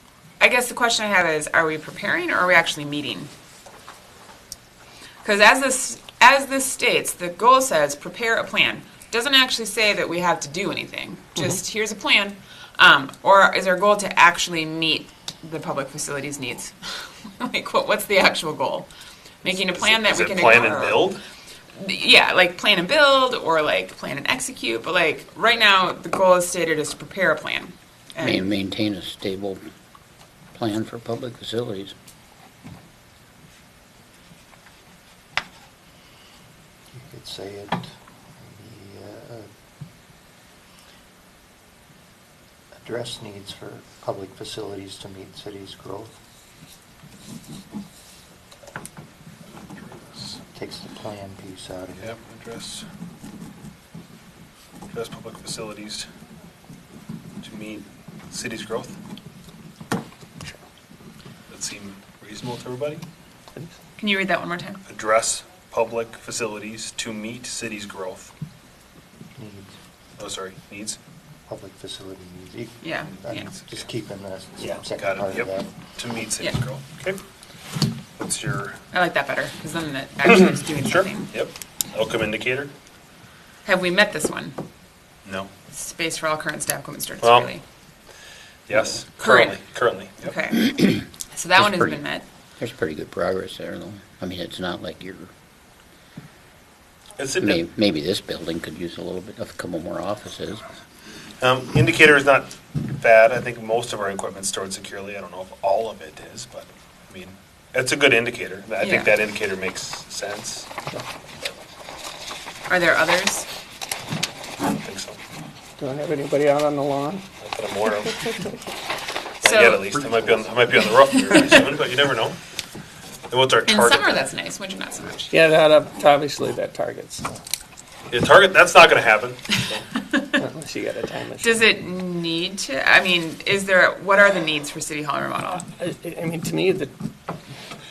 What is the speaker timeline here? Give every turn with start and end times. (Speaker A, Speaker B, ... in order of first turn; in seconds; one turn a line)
Speaker A: 0.4-3.3
Speaker A: 5.2-18.9
Speaker A: 19.4-21.1
Speaker B: 19.6-21.2
Speaker A: 21.8-28.4
Speaker C: 28.2-29.6
Speaker C: 30.5-31.9
Speaker D: 36.9-39.5
Speaker D: 42.8-46.1
Speaker B: 49.7-50.4
Speaker D: 50.5-52.2
Speaker B: 52.0-52.9
Speaker B: 54.9-56.1
Speaker B: 57.4-59.0
Speaker B: 61.5-63.0
Speaker A: 64.0-64.8
Speaker B: 64.9-68.3
Speaker D: 69.4-69.8
Speaker B: 70.2-71.0
Speaker D: 71.5-75.7
Speaker A: 72.8-73.5
Speaker B: 74.6-77.2
Speaker B: 78.2-78.8
Speaker A: 78.9-81.3
Speaker B: 80.3-82.7
Speaker A: 83.7-84.6
Speaker B: 85.2-85.5
Speaker A: 85.7-87.6
Speaker B: 87.2-87.5
Speaker B: 88.7-90.4
Speaker A: 89.2-89.6
Speaker A: 90.2-92.2
Speaker C: 91.6-92.0
Speaker C: 92.6-95.3
Speaker B: 97.2-97.7
Speaker C: 97.4-100.6
Speaker B: 101.4-110.7
Speaker A: 108.8-109.1
Speaker A: 112.7-113.5
Speaker B: 114.8-115.2
Speaker E: 115.8-117.3
Speaker B: 117.4-118.4
Speaker A: 119.4-121.6
Speaker B: 119.4-122.4
Speaker B: 123.3-124.3
Speaker A: 123.7-125.3
Speaker E: 125.3-127.4
Speaker B: 128.1-129.9
Speaker E: 130.3-131.7
Speaker A: 131.4-135.6
Speaker E: 135.6-136.9